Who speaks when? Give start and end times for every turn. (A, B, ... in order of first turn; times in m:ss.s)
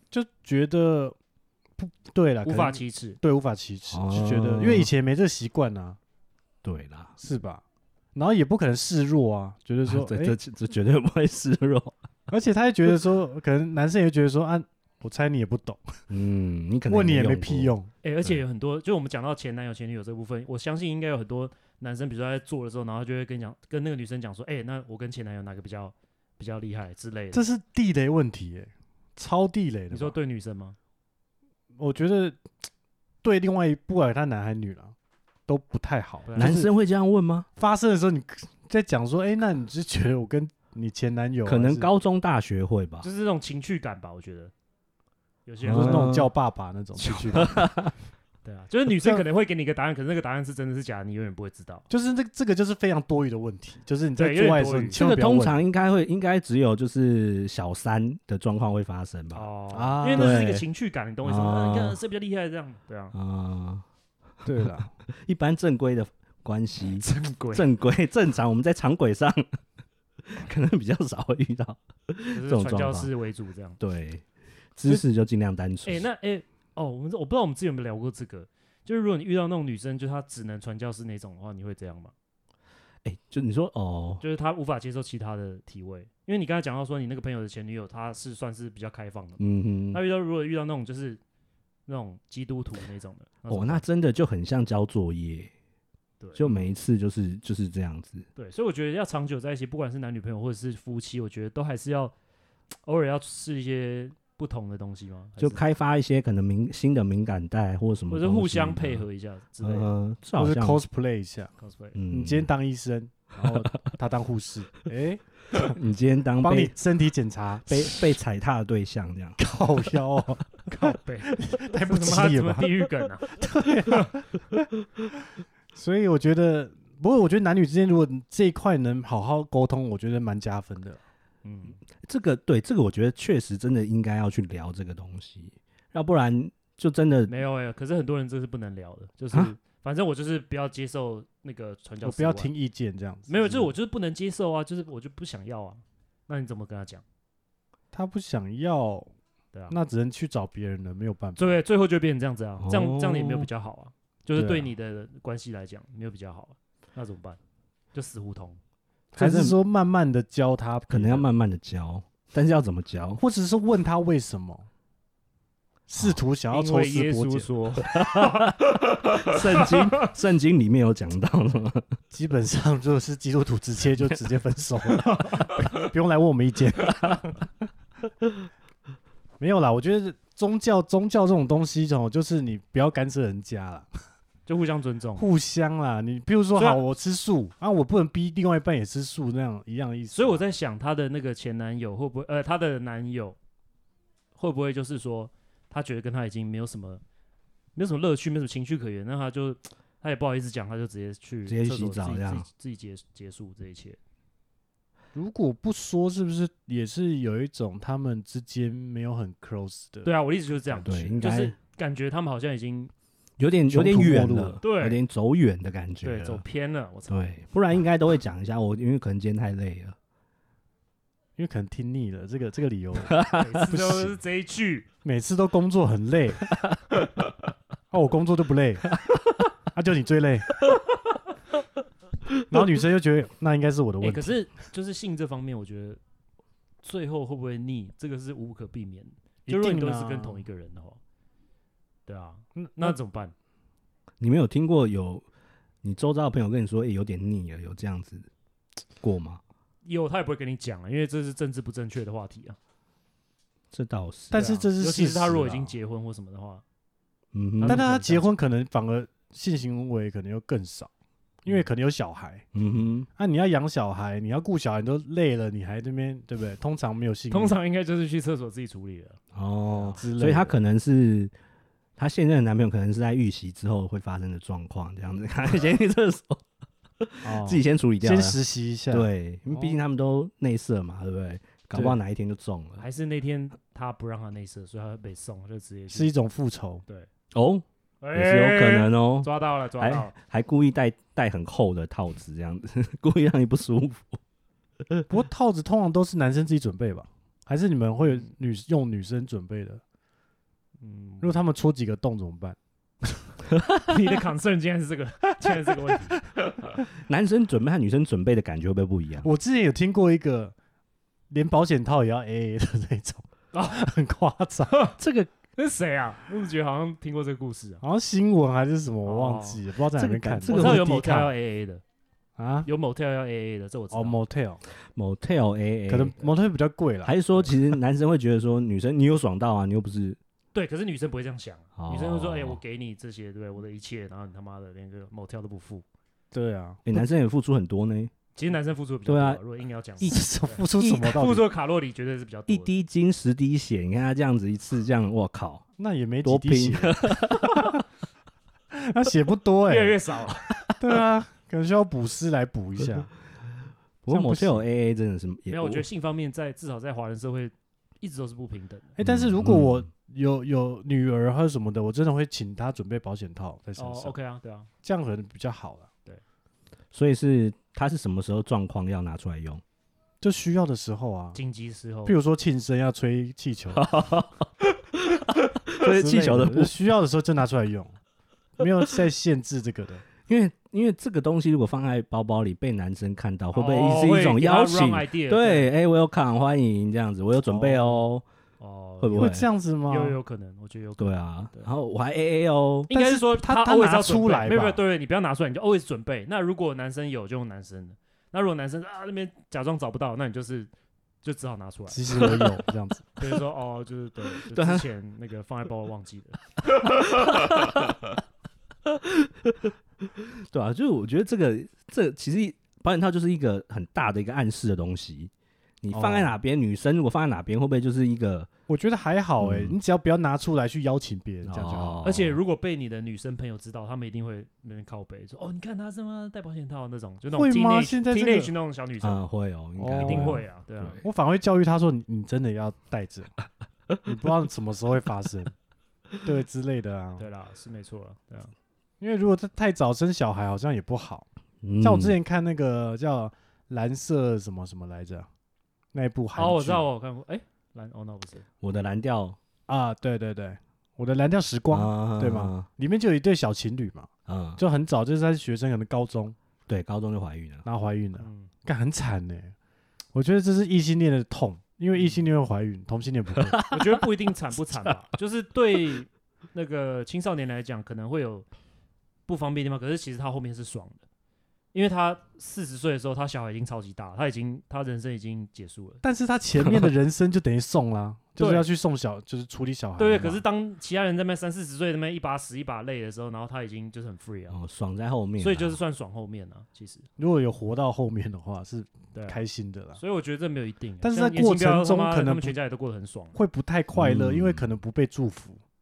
0:00.1-0:01.2 A
0:01.8-0:06.0 A
0:02.4-0:03.2 B
0:03.9-0:04.9 C
0:06.6-0:07.2 C
0:07.2-0:07.6 A
0:08.2-0:10.4 A
0:09.9-0:12.0 C
0:12.3-0:15.8 A
0:16.1-0:18.4 C
0:16.9-0:17.9 A
0:18.0-0:27.5 B
0:27.3-0:30.2 A
0:29.9-0:30.8 B
0:31.8-0:32.4 A
0:33.2-0:35.0 A
0:35.5-0:36.7 A
0:36.3-0:36.5 B
0:36.4-0:37.5 C
0:37.6-0:41.9 A
0:41.4-0:43.1 C
0:43.0-0:44.5 B
0:45.5-0:46.2 B
0:45.6-0:47.6 A
0:45.6-0:46.3 C
0:47.0-0:47.5 B
0:47.4-0:47.9 C
0:48.4-0:51.8 B
0:51.9-0:55.6 A
0:54.2-0:55.0 B
0:54.9-0:59.5 C
0:59.3-1:03.1 B
0:59.7-1:00.7 A
1:00.1-1:00.5 C
1:01.2-1:02.0 C
1:03.1-1:03.8 C
1:04.4-1:04.9 A
1:04.6-1:09.6 C
1:07.0-1:07.7 B
1:10.3-1:13.1 C
1:12.3-1:13.8 B
1:13.8-1:14.2 C
1:14.8-1:16.0 C
1:15.8-1:22.1 B
1:23.0-1:24.2 C
1:24.2-1:31.2 B
1:29.4-1:30.0 C
1:31.9-1:33.8 B
1:33.5-1:35.5 C
1:36.2-1:36.5 B
1:36.4-1:38.3 C
1:38.4-1:42.1 B
1:42.8-1:45.6 B
1:45.4-1:49.1 C
1:48.1-1:49.9 B
1:49.6-1:50.8 C
1:50.4-1:51.5 A
1:51.6-1:52.0 B
1:52.0-1:52.5 C
1:52.1-1:55.6 A
1:55.6-1:56.8 C
1:56.4-1:58.1 A
1:57.7-1:59.4 C
1:59.4-2:02.7 A
2:00.7-2:04.1 B
2:03.4-2:04.3 A
2:05.7-2:11.0 A
2:11.4-2:11.8 B
2:12.0-2:17.3 C
2:17.3-2:22.5 B
2:22.0-2:23.7 A
2:23.3-2:27.0 B
2:27.9-2:29.1 A
2:29.7-2:31.6 A
2:31.4-2:37.4 B
2:32.6-2:33.5 C
2:34.3-2:34.7 A
2:37.9-2:38.6 B
2:39.1-2:41.3 A
2:39.2-2:39.6 C
2:40.9-2:43.2 C
2:43.2-2:44.7 A
2:45.9-2:47.5 A
2:46.5-2:50.1 B
2:49.2-2:51.8 C
2:52.1-2:57.3 A
2:59.4-3:03.9 A
3:04.5-3:05.3 B
3:05.2-3:10.4 A
3:06.6-3:06.8 B
3:10.1-3:13.4 B
3:14.4-3:17.0 B
3:17.8-3:24.0 B
3:21.5-3:22.5 C
3:25.1-3:30.1 A
3:30.0-3:32.9 B
3:30.7-3:31.6 C
3:33.4-3:36.4 C
3:33.7-3:34.6 A
3:34.6-3:35.0 B
3:36.0-3:37.4 B
3:37.1-3:40.0 C
3:41.4-3:44.2 A
3:43.4-3:44.9 B
3:45.0-3:46.5 A
3:47.9-3:48.9 A
3:49.7-3:50.6 A
3:52.5-3:54.4 A
3:54.0-3:56.0 B
3:56.8-4:01.0 B
3:59.5-4:00.4 A
4:02.1-4:03.3 B
4:02.6-4:03.0 A
4:04.2-4:05.3 C
4:05.8-4:08.3 C
4:09.0-4:09.4 C
4:09.8-4:12.6 B
4:13.7-4:14.5 C
4:14.3-4:15.7 A
4:14.4-4:16.6 B
4:17.3-4:17.8 C
4:17.6-4:18.3 B
4:17.7-4:20.9 A
4:21.4-4:22.4 A
4:22.5-4:23.1 C
4:23.2-4:27.6 A
4:27.3-4:29.2 B
4:29.3-4:31.3 C
4:29.7-4:30.0 B
4:29.8-4:30.6 A
4:32.0-4:36.4 C
4:37.0-4:38.4 C
4:37.2-4:39.8 A
4:38.9-4:42.9 C
4:41.7-4:42.0 A
4:42.8-4:46.2 B
4:45.9-4:46.8 A
4:47.3-4:54.2 C
4:48.0-4:50.1 B
4:55.1-4:59.8 A
5:00.8-5:01.4 B
5:01.2-5:03.3 A
5:03.9-5:06.2 B
5:05.4-5:06.2 A
5:07.0-5:09.3 C
5:09.2-5:10.6 A
5:11.3-5:14.9 A
5:14.7-5:15.0 B
5:15.0-5:15.3 C
5:15.6-5:17.8 B
5:17.8-5:21.3 A
5:19.0-5:19.6 B
5:20.0-5:20.8 C
5:20.5-5:21.8 B
5:22.4-5:22.7 A
5:22.7-5:24.2 B
5:23.9-5:24.6 A
5:25.0-5:26.3 C
5:25.9-5:27.2 A
5:27.0-5:30.2 C
5:30.5-5:35.8 B
5:31.8-5:32.6 C
5:36.3-5:37.0 A
5:36.9-5:38.1 C
5:38.4-5:42.7 B
5:39.1-5:39.4 C
5:40.0-5:41.5 A
5:40.7-5:41.1 C
5:42.5-5:45.6 C
5:45.8-5:47.7 A
5:46.2-5:47.7 C
5:48.7-5:50.0 A
5:49.7-5:50.6 B
5:50.8-5:53.1 A
5:54.0-5:55.9 C
5:54.1-5:54.6 A
5:55.5-5:58.9 B
5:59.0-6:04.2 A
5:59.0-5:59.8 C
6:03.8-6:04.7 B
6:04.8-6:05.9 A
6:06.9-6:09.6 C
6:10.2-6:11.4 A
6:11.3-6:12.2 B
6:12.1-6:13.8 A
6:13.7-6:16.8 C
6:15.8-6:18.0 A
6:18.6-6:20.1 A
6:20.3-6:28.2 C
6:23.5-6:25.7 B
6:27.4-6:28.1 A
6:28.6-6:31.7 B
6:29.0-6:29.5 C
6:29.1-6:30.2 A
6:31.0-6:32.9 C
6:32.9-6:34.8 A
6:32.9-6:40.7 B
6:41.2-6:42.4 B
6:41.9-6:43.2 A
6:43.2-6:46.4 B
6:44.5-6:44.8 C
6:47.1-6:47.8 C
6:49.2-6:49.7 C
6:50.4-6:58.5 C
6:55.9-6:56.4 A
6:58.7-7:02.2 A
6:59.4-6:59.8 C
7:01.4-7:02.4 C
7:02.0-7:09.2 B
7:07.3-7:08.5 A
7:09.0-7:11.0 C
7:09.8-7:10.5 A
7:10.0-7:11.0 B
7:11.0-7:13.3 A
7:14.0-7:15.5 A
7:16.2-7:17.3 A
7:17.2-7:18.5 B
7:19.0-7:21.2 A
7:21.6-7:22.2 C
7:21.8-7:25.3 A
7:25.9-7:26.9 A
7:26.4-7:28.4 B
7:28.6-7:29.4 C
7:29.7-7:36.4 A
7:31.7-7:32.7 C
7:34.3-7:34.6 C
7:36.7-7:37.6 C
7:37.6-7:39.5 A
7:38.2-7:38.5 B
7:40.1-7:43.6 A
7:42.0-7:42.2 B
7:43.5-7:44.0 C
7:43.7-7:48.5 B
7:49.3-7:51.0 B
7:51.7-7:56.0 B
7:56.0-8:00.4 A
7:58.4-7:58.7 B
8:00.0-8:04.6 B
8:04.5-8:05.8 C
8:05.4-8:07.1 B
8:07.2-8:10.0 A
8:09.1-8:09.4 B
8:10.0-8:13.4 B
8:11.0-8:12.6 A
8:13.3-8:15.6 A
8:13.9-8:14.7 C